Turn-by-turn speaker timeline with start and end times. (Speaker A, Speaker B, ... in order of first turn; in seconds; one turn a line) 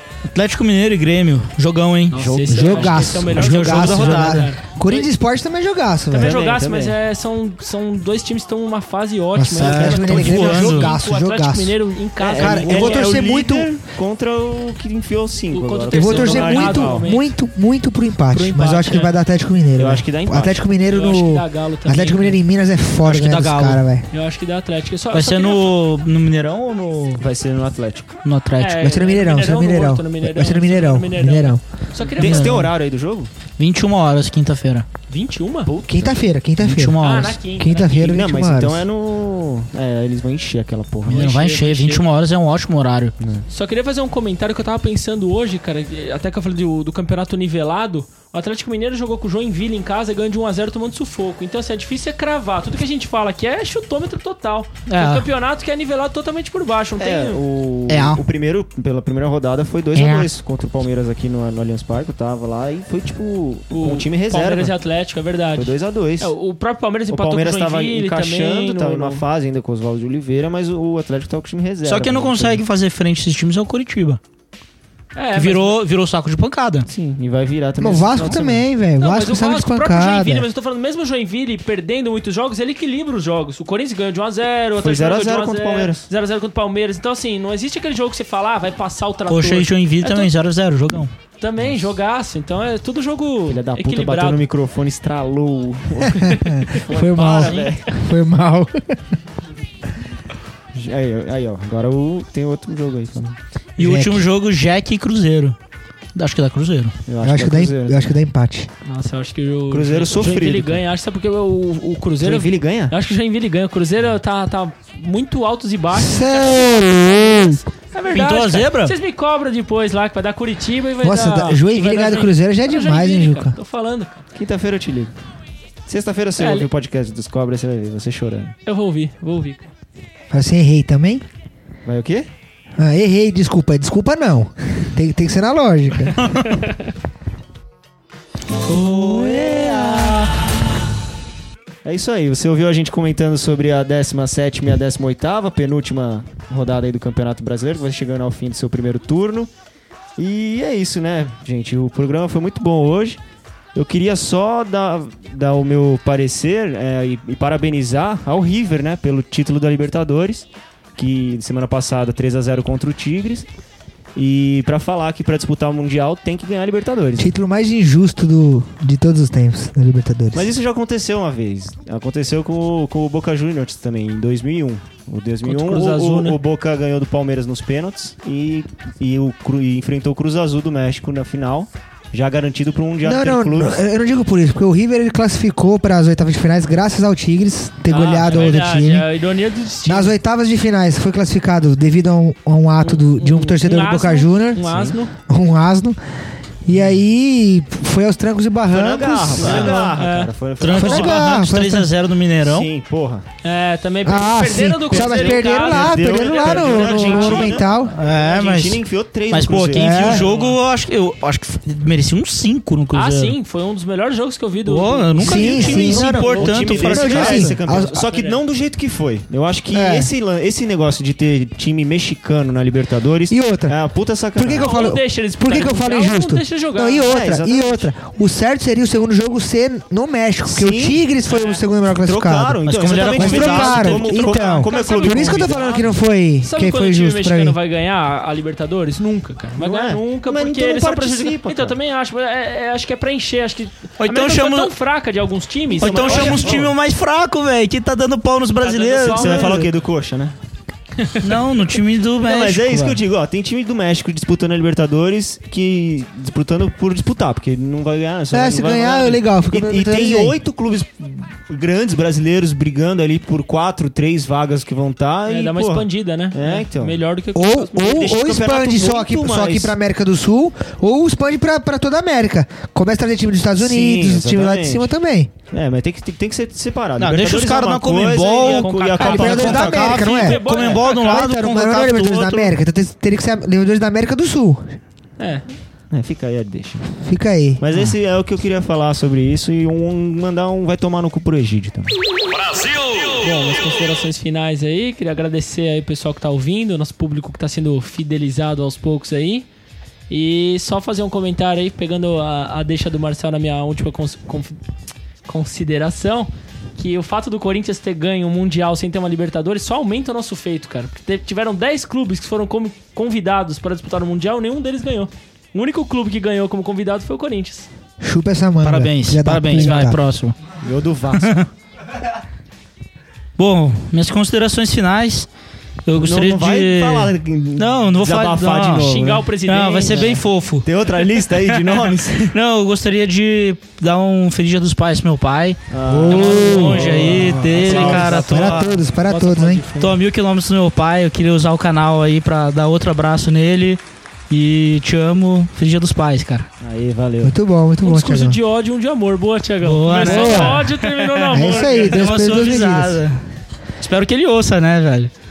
Speaker A: 0.3-2.2
Speaker B: 2.1-5.1
Speaker C: 2.2-3.1
Speaker D: 2.5-6.3
Speaker A: 3.2-4.5
Speaker B: 6.1-13.1
Speaker C: 6.1-7.0
Speaker D: 9.3-11.8
Speaker A: 9.6-10.9
Speaker C: 12.2-17.1
Speaker D: 12.3-13.7
Speaker B: 15.5-17.3
Speaker D: 15.9-24.1
Speaker B: 18.3-19.2
Speaker C: 19.8-20.6
Speaker B: 20.8-22.4
Speaker A: 23.0-23.8
Speaker B: 24.1-25.8
Speaker A: 25.1-27.2
Speaker C: 27.2-28.1
Speaker A: 28.2-28.8
Speaker B: 28.6-32.6
Speaker D: 28.8-31.6
Speaker C: 32.1-33.3
Speaker A: 32.2-32.7
Speaker A: 33.6-34.9
Speaker B: 35.1-35.7
Speaker C: 35.6-36.2
Speaker D: 35.9-38.9
Speaker A: 36.6-37.4
Speaker B: 37.0-38.2
Speaker C: 38.0-41.3
Speaker A: 41.1-43.1
Speaker B: 41.1-42.0
Speaker C: 43.2-43.4
Speaker B: 43.5-57.4
Speaker A: 54.9-55.3
Speaker C: 57.0-64.8
Speaker A: 57.9-58.2
Speaker A: 59.9-60.3
Speaker B: 63.7-69.2
Speaker C: 65.5-66.3
Speaker C: 67.1-72.6
Speaker A: 71.8-74.2
Speaker B: 75.1-75.8
Speaker A: 75.3-76.9
Speaker C: 76.9-78.6
Speaker D: 77.8-80.5
Speaker B: 79.0-90.3
Speaker C: 84.7-86.1
Speaker A: 89.3-91.1
Speaker B: 91.4-94.4
Speaker C: 93.5-97.9
Speaker D: 96.2-98.9
Speaker A: 97.2-97.7
Speaker C: 100.7-103.4
Speaker A: 103.8-105.5
Speaker D: 103.8-104.2
Speaker A: 106.1-106.9
Speaker C: 107.0-108.1
Speaker D: 107.2-108.7
Speaker B: 108.8-124.2
Speaker C: 109.7-110.8
Speaker C: 112.2-112.9
Speaker D: 115.9-117.6
Speaker A: 118.1-118.9
Speaker D: 121.0-123.5
Speaker C: 124.3-125.1
Speaker C: 125.8-128.6
Speaker B: 126.4-126.7
Speaker B: 128.7-129.7
Speaker D: 130.3-131.2
Speaker C: 131.8-132.3
Speaker D: 132.8-136.2
Speaker A: 138.7-140.3
Speaker C: 141.8-149.5
Speaker C: 150.2-153.2
Speaker C: 153.7-163.5
Speaker C: 164.1-167.3
Speaker D: 167.2-170.5
Speaker C: 170.3-183.8
Speaker B: 175.4-176.4
Speaker D: 183.0-189.1
Speaker B: 187.9-190.1
Speaker D: 189.8-196.0
Speaker B: 192.8-195.1
Speaker C: 194.6-194.9
Speaker D: 196.6-199.9
Speaker C: 198.7-201.2
Speaker A: 199.4-199.8
Speaker B: 199.4-200.3
Speaker A: 200.6-202.7
Speaker D: 200.7-201.9
Speaker C: 202.4-203.2
Speaker B: 203.4-207.7
Speaker D: 204.0-207.9
Speaker C: 204.9-210.3
Speaker A: 207.8-213.3
Speaker D: 209.8-210.2
Speaker B: 210.1-210.6
Speaker B: 212.9-218.4
Speaker A: 214.6-217.5
Speaker D: 215.2-217.9
Speaker C: 215.6-224.7
Speaker D: 219.7-220.1
Speaker D: 223.3-223.7
Speaker D: 224.3-232.6
Speaker B: 224.6-227.1
Speaker C: 227.1-227.9
Speaker C: 230.4-231.0
Speaker B: 231.3-231.6
Speaker C: 231.9-235.5
Speaker A: 232.7-234.2
Speaker D: 233.1-237.6
Speaker B: 234.2-235.9
Speaker B: 236.4-246.6
Speaker C: 239.6-241.8
Speaker A: 244.0-244.7
Speaker C: 245.8-246.7
Speaker A: 245.8-249.7
Speaker B: 248.6-249.7
Speaker C: 249.1-250.3
Speaker A: 251.2-253.0
Speaker C: 252.2-267.0
Speaker D: 258.3-260.3
Speaker B: 265.2-268.0
Speaker D: 267.3-275.3
Speaker C: 267.8-269.7
Speaker C: 273.6-274.9
Speaker C: 275.5-280.8
Speaker A: 277.0-282.5
Speaker B: 278.3-281.2
Speaker D: 279.0-284.8
Speaker B: 285.2-285.4
Speaker C: 285.9-286.8
Speaker D: 287.0-287.6
Speaker C: 287.6-291.9
Speaker B: 293.2-299.5
Speaker B: 300.1-304.6
Speaker B: 305.2-317.7
Speaker D: 318.0-320.0
Speaker A: 318.6-320.4
Speaker C: 320.6-321.4
Speaker A: 321.2-321.5
Speaker A: 323.4-325.3
Speaker A: 325.9-338.8
Speaker C: 326.0-329.3
Speaker B: 328.8-330.2
Speaker C: 329.8-332.4
Speaker C: 335.7-338.7
Speaker D: 335.8-339.6
Speaker B: 336.1-338.2
Speaker B: 339.0-340.0
Speaker A: 339.8-346.5
Speaker C: 346.6-347.4
Speaker D: 347.2-348.4
Speaker B: 347.8-352.3
Speaker A: 349.6-353.2
Speaker D: 350.0-350.6
Speaker D: 351.3-353.0
Speaker A: 353.8-355.1